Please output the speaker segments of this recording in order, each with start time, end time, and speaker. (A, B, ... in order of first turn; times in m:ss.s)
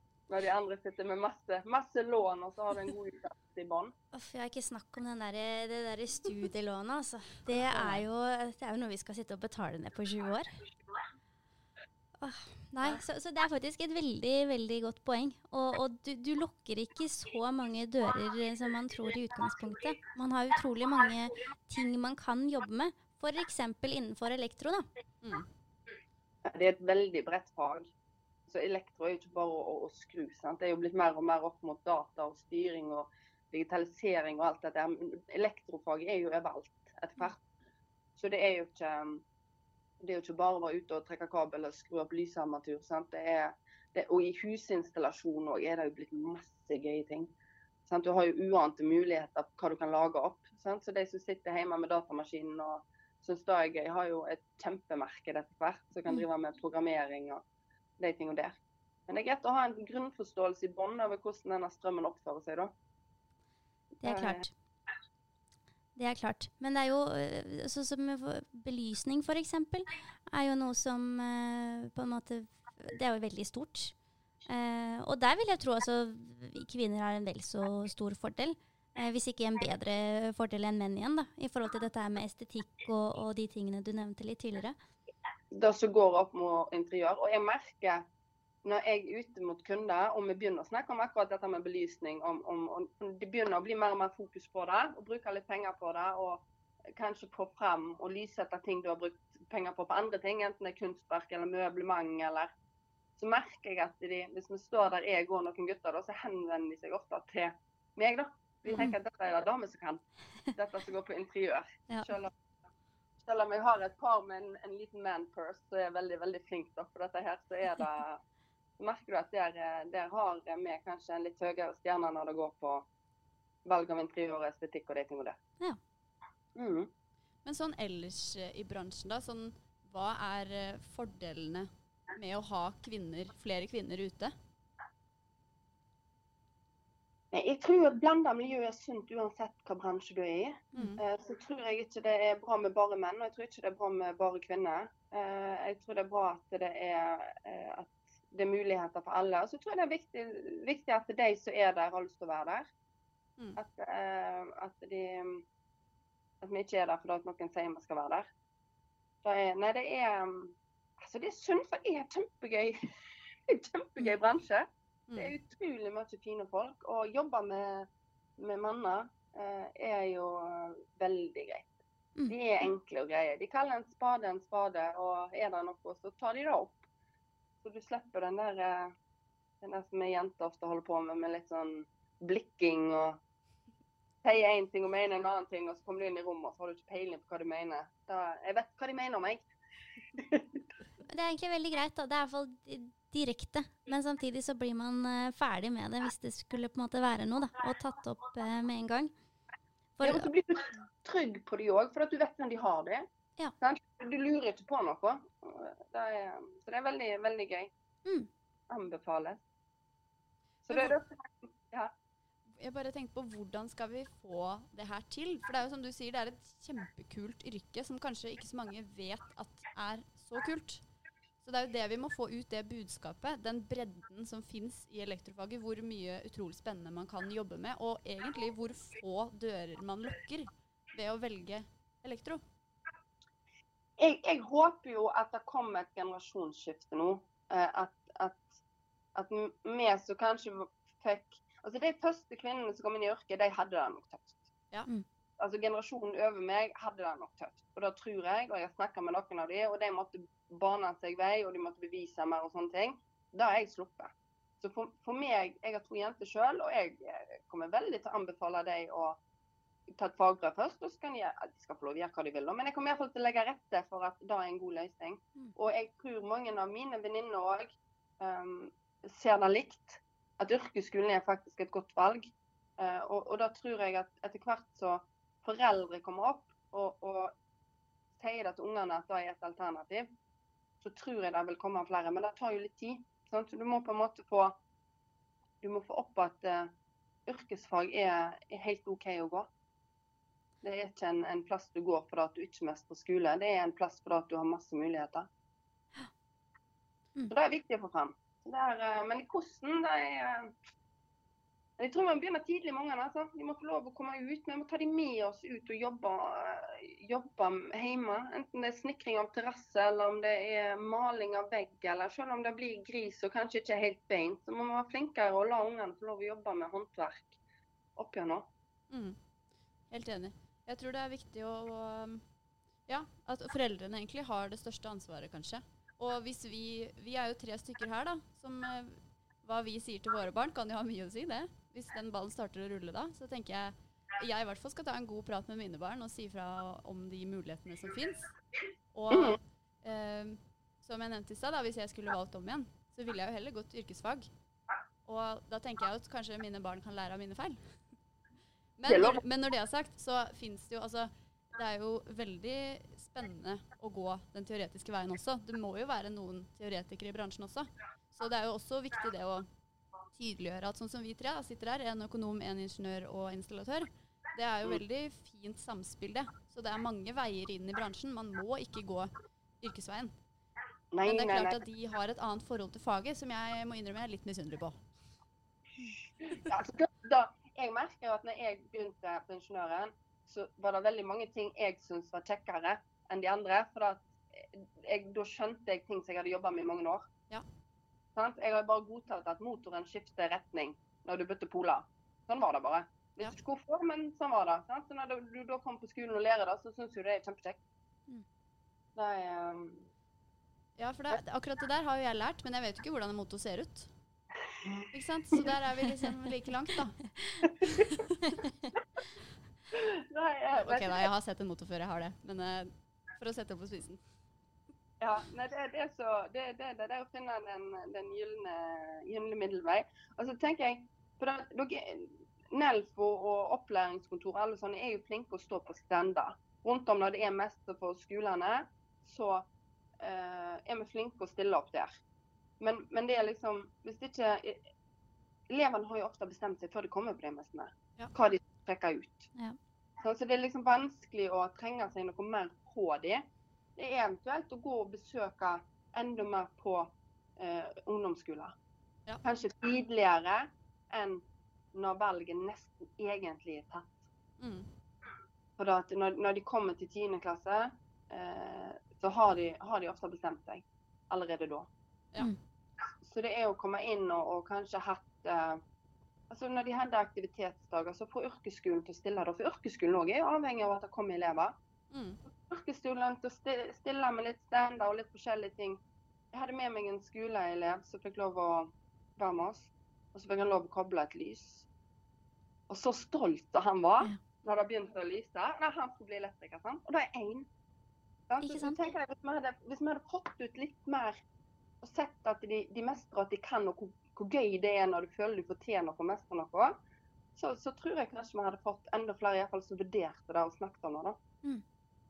0:00.3-0:03.9 A
0:04.1-0:10.5 B
0:07.5-0:08.1 C
0:12.2-0:24.8 B
0:25.2-0:25.5 C
0:26.4-0:27.9 A
0:28.5-0:37.4 A
0:38.2-0:39.2 A
0:40.0-0:47.3 A
0:47.9-0:57.4 A
0:58.0-1:02.7 A
1:04.0-1:04.5 B
1:04.0-1:04.4 A
1:06.0-1:14.0 B
1:14.5-1:24.8 B
1:25.5-1:28.0 A
1:28.6-1:42.5 A
1:43.2-1:50.0 A
1:48.7-1:48.9 B
1:50.6-1:52.3 A
1:53.2-1:58.2 A
1:58.8-2:02.9 A
2:03.6-2:05.4 A
2:06.6-2:06.9 A
2:07.4-2:14.3 C
2:17.3-2:32.7 A
2:20.8-2:21.0 C
2:33.6-2:35.4 A
2:36.4-2:38.3 A
2:39.2-2:42.8 A
2:43.5-2:51.7 A
2:52.3-2:56.9 A
2:57.6-2:58.9 A
2:59.6-3:03.2 A
3:04.2-3:09.4 A
3:10.2-3:10.6 A
3:11.1-3:19.1 B
3:20.0-3:20.3 B
3:20.0-3:23.1 A
3:23.6-3:27.7 A
3:28.0-3:28.3 B
3:28.7-3:29.4 A
3:30.7-3:31.9 A
3:30.7-3:31.0 C
3:32.6-3:40.8 C
3:41.4-3:52.4 C
3:54.0-3:58.6 A
3:59.2-4:04.4 A
4:05.4-4:19.2 A
4:19.9-4:37.4 A
4:38.2-4:40.1 A
4:40.8-4:44.6 A
4:45.6-4:46.7 A
4:47.3-4:49.5 A
4:50.6-4:55.3 A
4:57.3-5:00.6 A
5:01.8-5:17.4 A
5:18.0-5:18.5 A
5:18.9-5:19.2 C
5:19.9-5:22.2 C
5:22.9-5:38.3 C
5:38.9-5:44.3 C
5:39.1-5:39.4 A
5:45.1-5:47.8 C
5:48.8-5:59.5 C
5:48.9-5:49.2 A
6:00.1-6:09.1 C
6:09.6-6:10.1 C
6:10.9-6:11.6 A
6:11.0-6:14.8 C
6:16.2-6:27.0 A
6:28.2-6:37.6 A
6:39.0-6:39.9 A
6:40.8-6:43.9 C
6:44.9-6:47.1 C
6:49.7-6:51.1 A
6:50.6-6:54.0 C
6:55.0-7:09.5 A
7:10.0-7:12.0 A
7:12.6-7:14.6 A
7:15.5-7:19.3 A
7:20.0-7:23.2 A
7:23.8-7:28.6 A
7:29.2-7:34.0 A
7:34.4-7:34.7 C
7:35.6-7:41.7 A
7:43.0-7:45.6 A
7:46.3-7:51.5 A
7:51.9-7:52.2 C
7:52.5-7:55.8 A
7:56.3-8:01.7 A
8:02.7-8:07.5 A
8:08.3-8:11.2 A
8:08.4-8:08.8 B
8:11.8-8:16.8 A
8:17.4-8:21.2 A